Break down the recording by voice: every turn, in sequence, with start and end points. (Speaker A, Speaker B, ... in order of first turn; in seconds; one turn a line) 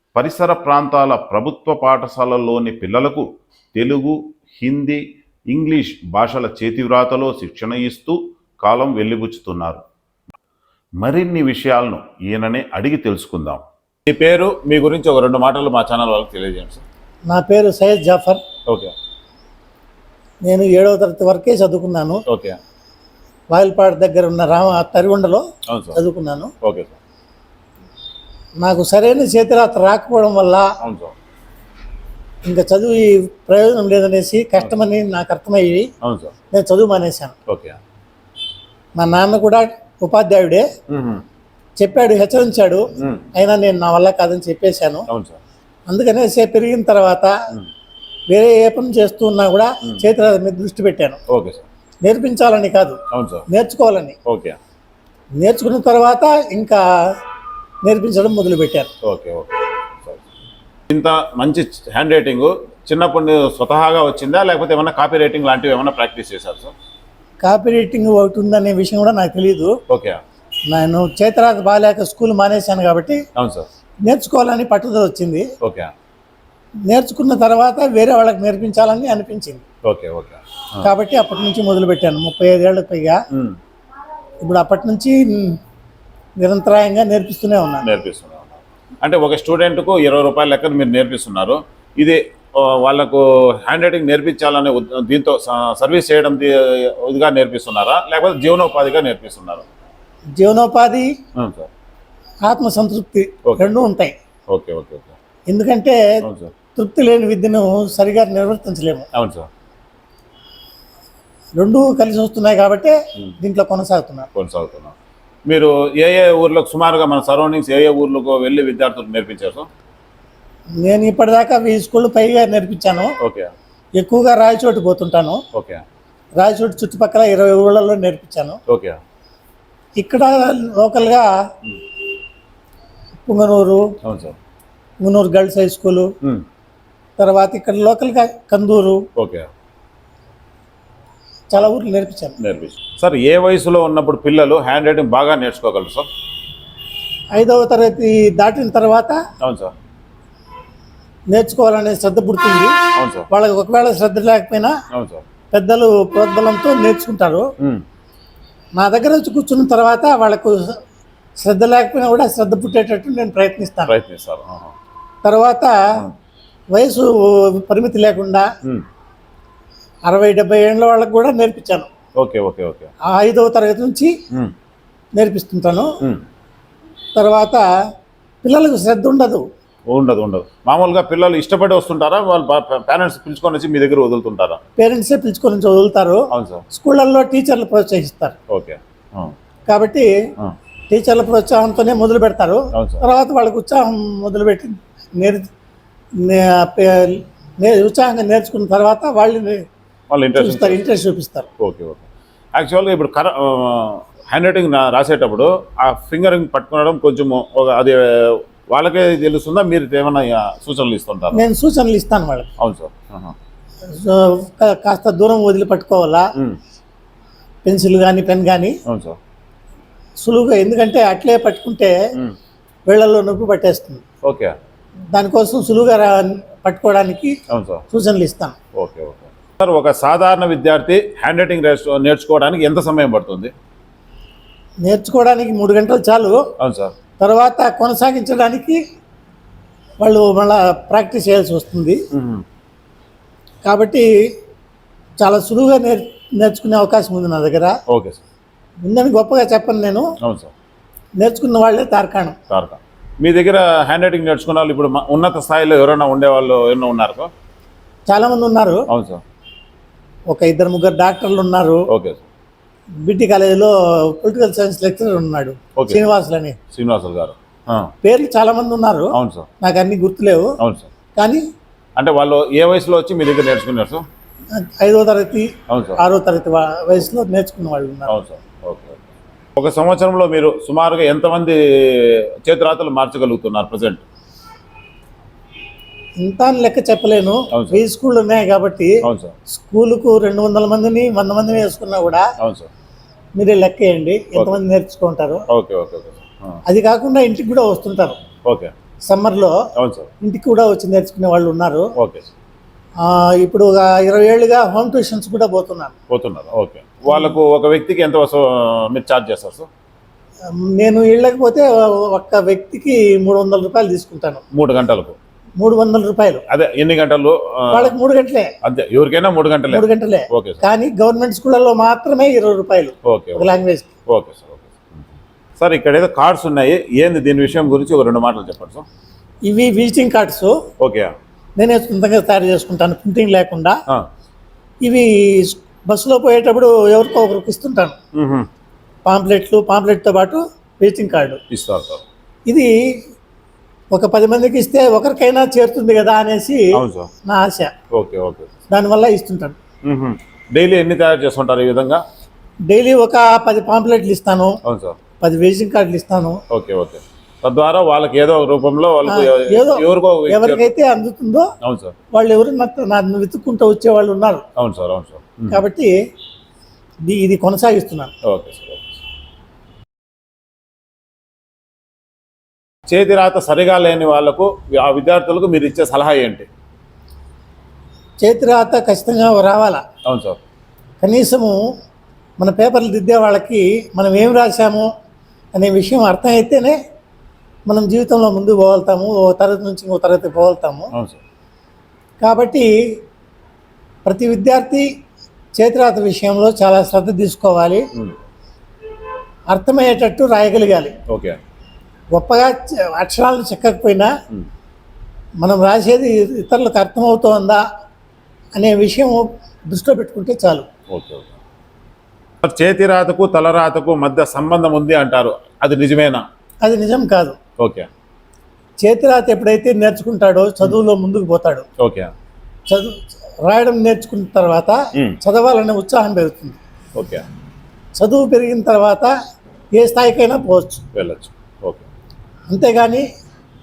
Speaker A: 0.1-9.8
Speaker A: 11.0-13.6
Speaker B: 14.1-16.8
Speaker C: 17.3-18.4
Speaker C: 20.5-22.2
Speaker B: 22.3-22.6
Speaker C: 23.5-25.4
Speaker B: 25.7-26.0
Speaker C: 25.9-26.5
Speaker B: 26.6-26.9
Speaker C: 28.6-30.7
Speaker B: 30.8-31.1
Speaker C: 32.4-35.9
Speaker B: 36.0-36.3
Speaker C: 36.5-37.3
Speaker B: 37.5-37.8
Speaker C: 39.0-40.7
Speaker B: 40.9-41.2
Speaker C: 41.8-45.1
Speaker B: 43.0-43.2
Speaker B: 45.1-45.4
Speaker C: 45.9-47.3
Speaker C: 48.3-51.2
Speaker B: 51.3-51.6
Speaker C: 52.0-54.1
Speaker B: 53.1-53.4
Speaker B: 54.2-54.6
Speaker C: 55.4-56.8
Speaker C: 57.8-58.9
Speaker B: 59.0-60.2
Speaker B: 60.9-66.7
Speaker C: 67.4-69.7
Speaker B: 69.9-70.2
Speaker C: 70.7-73.2
Speaker B: 73.3-73.7
Speaker C: 74.0-75.5
Speaker B: 75.6-75.9
Speaker C: 76.9-79.6
Speaker B: 79.8-80.9
Speaker C: 80.8-83.2
Speaker B: 83.3-83.6
Speaker C: 84.4-85.6
Speaker C: 86.4-87.9
Speaker B: 87.8-99.6
Speaker C: 100.4-101.1
Speaker B: 101.4-101.7
Speaker C: 102.5-104.1
Speaker B: 104.5-105.1
Speaker C: 105.5-106.0
Speaker B: 106.2-106.5
Speaker C: 106.7-109.1
Speaker B: 109.1-109.5
Speaker C: 111.6-114.3
Speaker B: 114.3-114.9
Speaker B: 115.5-119.7
Speaker C: 120.8-123.1
Speaker B: 123.2-123.5
Speaker C: 124.0-125.4
Speaker B: 125.5-125.8
Speaker C: 126.4-128.6
Speaker B: 128.7-129.0
Speaker C: 130.0-131.3
Speaker C: 133.2-133.9
Speaker B: 134.0-134.3
Speaker C: 135.0-136.1
Speaker C: 137.2-139.0
Speaker B: 139.2-139.5
Speaker C: 141.5-142.4
Speaker B: 142.4-146.1
Speaker C: 147.3-149.2
Speaker B: 149.4-149.7
Speaker C: 151.3-152.7
Speaker B: 153.0-153.3
Speaker C: 153.3-154.8
Speaker B: 154.9-155.2
Speaker C: 155.5-157.5
Speaker C: 158.8-160.8
Speaker C: 161.4-163.9
Speaker B: 163.9-164.7
Speaker C: 165.2-165.7
Speaker C: 166.7-168.4
Speaker C: 170.1-171.9
Speaker B: 172.2-172.9
Speaker C: 173.1-174.1
Speaker C: 175.2-175.9
Speaker C: 177.2-177.6
Speaker C: 178.4-179.4
Speaker B: 179.9-184.6
Speaker C: 184.8-188.4
Speaker B: 186.3-186.6
Speaker B: 188.5-189.3
Speaker C: 189.7-190.1
Speaker C: 190.9-195.4
Speaker B: 192.7-193.0
Speaker C: 196.2-199.6
Speaker B: 200.1-200.8
Speaker C: 200.3-201.5
Speaker B: 201.6-211.4
Speaker C: 211.3-212.5
Speaker B: 212.6-213.3
Speaker C: 213.9-216.3
Speaker C: 217.6-218.8
Speaker B: 218.8-219.2
Speaker C: 220.2-221.9
Speaker C: 222.9-224.0
Speaker B: 224.2-224.5
Speaker C: 225.1-227.4
Speaker B: 227.5-227.8
Speaker C: 227.9-228.6
Speaker B: 228.8-233.5
Speaker C: 234.8-236.4
Speaker B: 236.6-236.9
Speaker C: 237.2-238.8
Speaker C: 240.0-242.0
Speaker B: 242.1-242.4
Speaker C: 243.7-244.1
Speaker C: 245.2-247.8
Speaker B: 247.9-248.2
Speaker C: 248.8-250.1
Speaker B: 250.2-250.5
Speaker C: 251.2-252.4
Speaker B: 252.5-257.3
Speaker C: 258.1-258.8
Speaker B: 258.9-259.2
Speaker C: 260.3-261.8
Speaker B: 261.9-262.2
Speaker C: 263.0-266.6
Speaker B: 265.8-266.0
Speaker B: 266.7-267.9
Speaker C: 268.0-270.5
Speaker B: 269.1-269.5
Speaker B: 270.6-270.9
Speaker C: 271.2-271.4
Speaker B: 271.9-274.0
Speaker C: 274.5-278.1
Speaker B: 275.7-276.0
Speaker B: 278.1-279.0
Speaker B: 279.6-284.0
Speaker C: 286.2-288.9
Speaker B: 287.5-287.8
Speaker B: 289.0-289.3
Speaker C: 289.5-292.3
Speaker B: 292.4-292.7
Speaker C: 293.4-295.4
Speaker B: 295.5-296.6
Speaker C: 296.6-298.2
Speaker B: 298.4-298.7
Speaker C: 299.1-299.6
Speaker B: 299.8-300.1
Speaker C: 300.2-301.9
Speaker B: 302.0-302.3
Speaker C: 303.0-305.9
Speaker B: 306.1-309.7
Speaker C: 307.1-307.4
Speaker C: 310.6-314.4
Speaker B: 314.5-315.2
Speaker C: 315.6-316.4
Speaker B: 316.5-317.9
Speaker C: 317.7-318.5
Speaker B: 318.6-320.6
Speaker C: 319.7-323.9
Speaker B: 323.1-323.5
Speaker B: 324.1-325.0
Speaker B: 325.6-328.9
Speaker C: 329.4-330.6
Speaker B: 330.8-331.1
Speaker C: 331.6-333.8
Speaker C: 334.8-338.0
Speaker B: 338.1-338.5
Speaker C: 339.1-341.4
Speaker B: 341.5-342.0
Speaker C: 342.5-342.7
Speaker C: 343.9-346.7
Speaker B: 346.8-347.1
Speaker C: 347.2-347.7
Speaker B: 347.9-348.5
Speaker C: 348.7-349.6
Speaker B: 349.9-352.0
Speaker C: 352.7-354.6
Speaker B: 354.6-355.0
Speaker C: 355.2-356.4
Speaker B: 356.5-360.7
Speaker C: 359.0-361.5
Speaker B: 361.6-361.9
Speaker C: 362.1-364.4
Speaker B: 364.6-365.6
Speaker C: 365.5-365.9
Speaker C: 367.1-368.1
Speaker B: 368.2-369.0
Speaker B: 372.9-376.5
Speaker C: 378.2-379.8
Speaker B: 380.1-380.4
Speaker C: 381.0-381.6
Speaker C: 382.4-384.9
Speaker C: 385.5-386.8
Speaker C: 387.7-390.9
Speaker C: 392.2-392.7
Speaker C: 394.0-394.9
Speaker C: 395.6-397.8
Speaker C: 399.5-400.9
Speaker B: 401.1-401.4
Speaker C: 402.1-404.1
Speaker C: 405.4-407.6
Speaker C: 408.6-410.7
Speaker B: 410.9-411.3
Speaker B: 412.4-416.2
Speaker C: 416.6-417.4
Speaker B: 417.6-417.9
Speaker C: 418.8-421.7
Speaker B: 421.8-422.1
Speaker C: 422.7-426.6
Speaker B: 426.9-427.2
Speaker C: 428.0-429.1
Speaker C: 429.7-430.8
Speaker B: 430.9-431.8
Speaker C: 432.5-433.1